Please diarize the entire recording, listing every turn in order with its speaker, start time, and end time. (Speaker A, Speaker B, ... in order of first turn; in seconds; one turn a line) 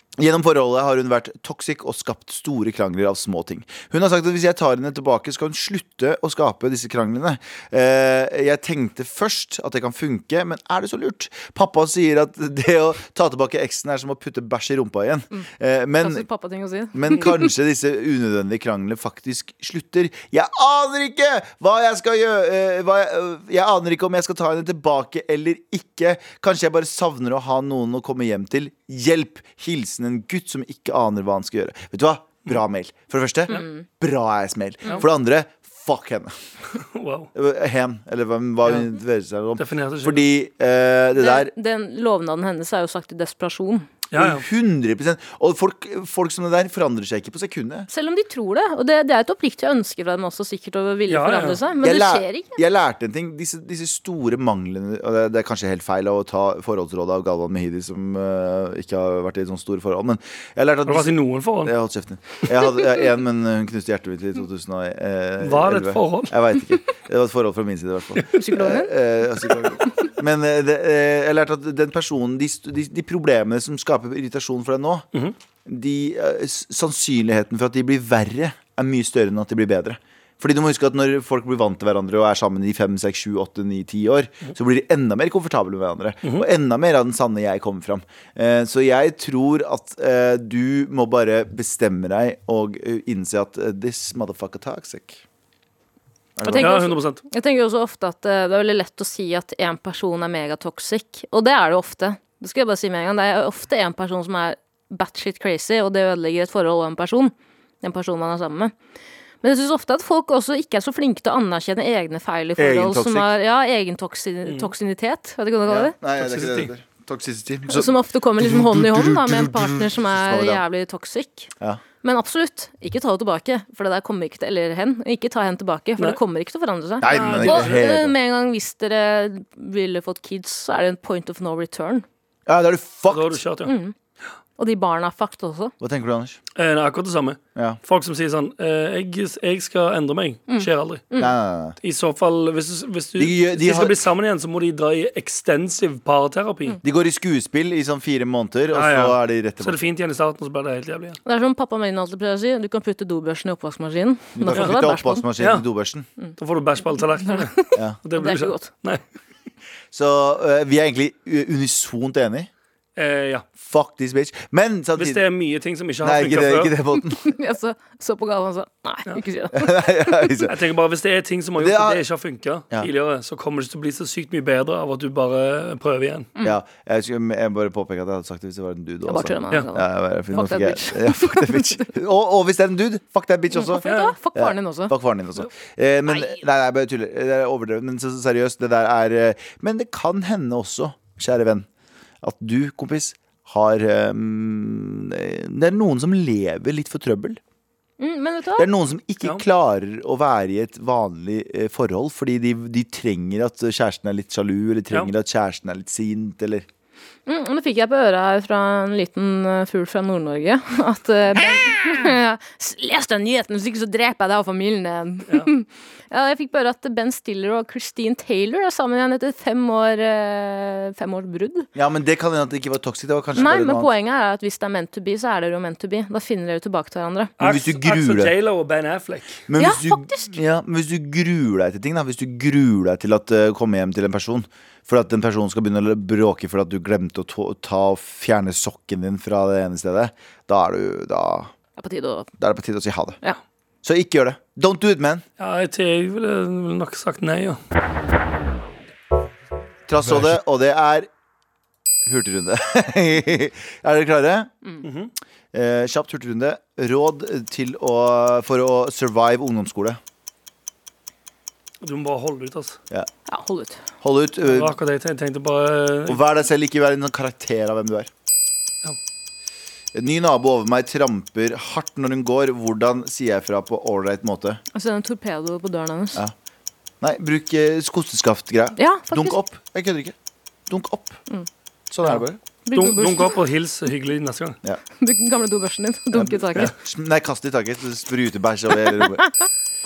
Speaker A: 0.2-16.3
Speaker B: 16.0-17.5
Speaker A: 16.9-36.3
Speaker B: 33.5-33.8
Speaker C: 36.8-37.3
Speaker A: 37.4-41.5
Speaker C: 39.6-40.3
Speaker B: 41.2-43.9
Speaker C: 44.1-44.5
Speaker A: 44.1-47.9
Speaker B: 47.9-52.6
Speaker C: 51.1-51.6
Speaker A: 51.8-75.1
Speaker C: 60.9-61.8
Speaker C: 65.4-66.4
Speaker B: 68.3-68.9
Speaker A: 75.7-95.2
Speaker A: 96.4-96.8
Speaker B: 96.4-108.7
Speaker C: 96.6-97.2
Speaker B: 109.4-116.0
Speaker A: 112.6-113.3
Speaker C: 114.5-114.7
Speaker A: 115.7-120.6
Speaker C: 116.2-116.7
Speaker B: 117.7-121.5
Speaker B: 122.0-132.1
Speaker A: 127.0-128.1
Speaker C: 127.1-127.8
Speaker A: 132.5-133.4
Speaker C: 133.1-133.7
Speaker B: 133.7-133.9
Speaker B: 134.6-135.7
Speaker A: 135.8-136.4
Speaker C: 136.6-141.1
Speaker B: 140.5-141.3
Speaker A: 141.2-141.8
Speaker C: 141.8-146.8
Speaker A: 143.2-144.0
Speaker A: 146.8-149.9
Speaker C: 148.7-151.2
Speaker B: 151.2-155.3
Speaker A: 154.4-156.1
Speaker C: 154.5-154.8
Speaker C: 155.4-155.6
Speaker C: 156.4-159.0
Speaker B: 157.2-158.7
Speaker A: 159.9-162.5
Speaker C: 163.0-163.5
Speaker A: 163.6-165.2
Speaker C: 165.0-166.7
Speaker A: 166.0-167.2
Speaker B: 167.2-170.2
Speaker A: 169.5-170.5
Speaker C: 170.5-176.3
Speaker A: 171.6-172.0
Speaker A: 176.4-191.7
Speaker B: 179.1-181.9
Speaker B: 183.5-184.9
Speaker C: 183.8-184.2
Speaker A: 192.2-197.4
Speaker B: 198.0-198.7
Speaker A: 198.6-206.7
Speaker B: 207.3-221.7
Speaker A: 221.8-223.9
Speaker B: 223.3-227.3
Speaker C: 227.4-229.4
Speaker A: 227.4-228.3
Speaker A: 229.5-241.5
Speaker B: 229.6-230.4
Speaker B: 241.8-242.3
Speaker A: 242.4-243.2
Speaker A: 243.8-245.2
Speaker C: 245.4-247.6
Speaker A: 249.9-251.1
Speaker A: 252.1-254.5
Speaker C: 254.8-255.1
Speaker A: 255.5-260.0
Speaker C: 261.8-262.8
Speaker B: 263.3-263.8
Speaker A: 264.0-264.7
Speaker C: 264.4-266.2
Speaker A: 266.1-268.1
Speaker A: 269.9-274.6
Speaker B: 274.7-276.2
Speaker A: 277.0-280.1
Speaker B: 278.8-279.4
Speaker A: 280.7-281.2
Speaker A: 281.9-282.4
Speaker B: 282.7-283.4
Speaker C: 282.7-284.6
Speaker B: 285.0-286.7
Speaker A: 286.1-289.2